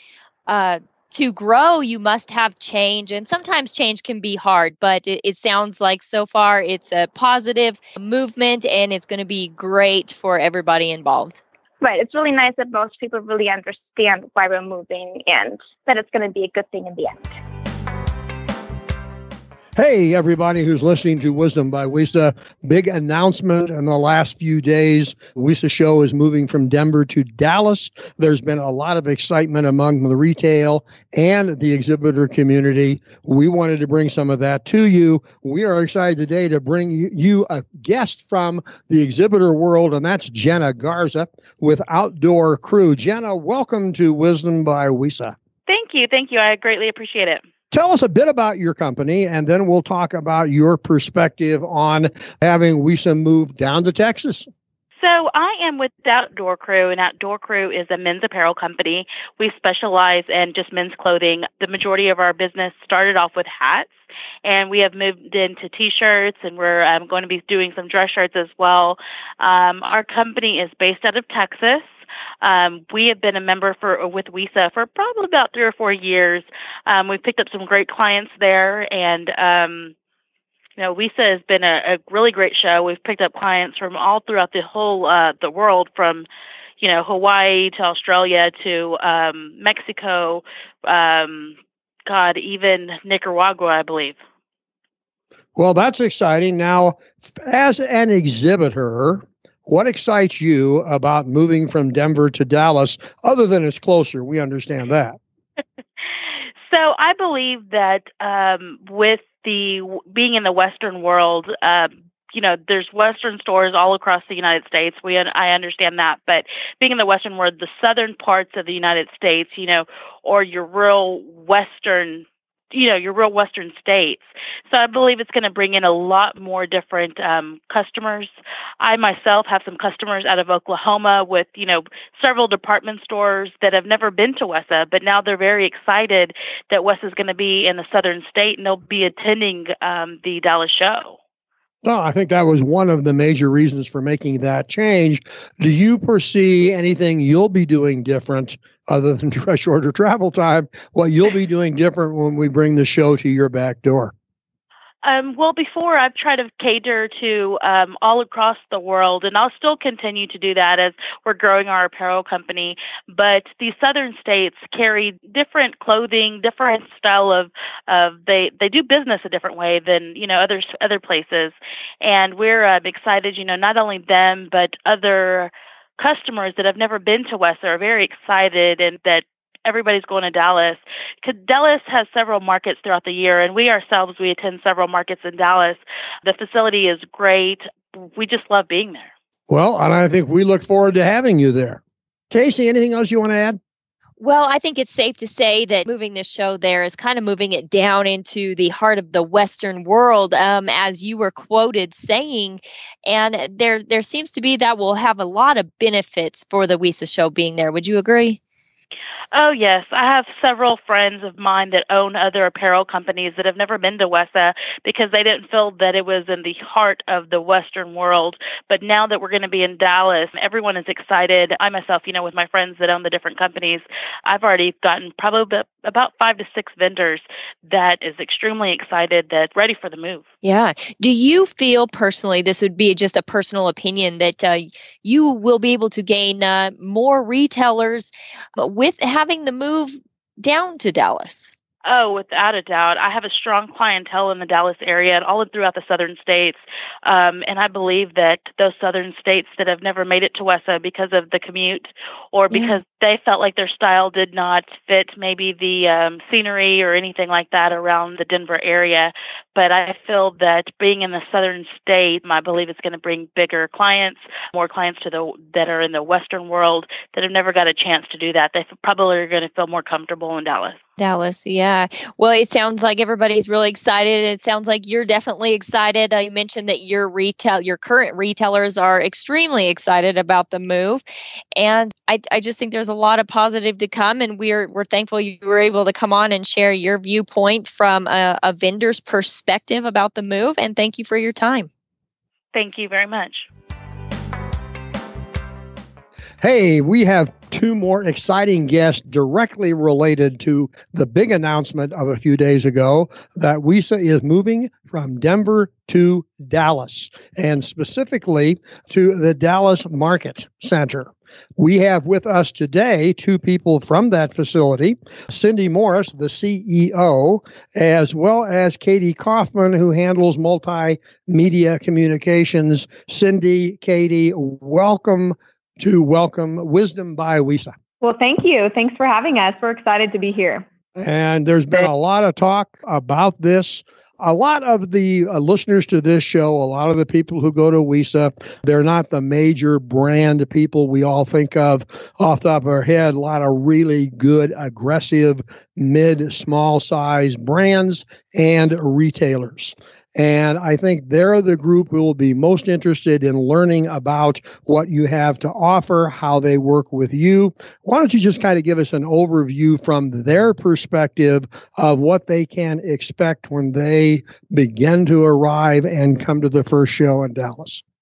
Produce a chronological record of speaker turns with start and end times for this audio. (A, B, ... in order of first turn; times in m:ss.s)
0:00.5-0:11.4 A
0:11.8-0:17.3 B
0:19.8-0:45.3 C
0:45.7-0:47.4 D
0:47.7-0:54.5 C
0:55.0-1:03.9 D
1:04.4-1:11.9 D
1:12.4-1:19.9 D
1:20.8-1:26.2 D
1:26.8-1:31.6 D
1:32.1-1:34.2 D
1:35.6-1:45.2 C
1:46.7-2:21.2 D
2:21.8-2:34.1 C
2:35.0-3:09.1 D
3:09.5-3:13.6 C
3:14.2-3:28.4 A
3:29.3-3:50.2 D
3:50.4-4:01.5 A
4:01.8-4:30.8 D
4:12.5-4:12.8 A
4:31.0-4:41.0 A
4:41.6-4:51.7 A
4:52.5-4:53.5 D
4:56.4-5:27.8 C
5:28.0-5:30.6 E
5:31.0-6:07.8 C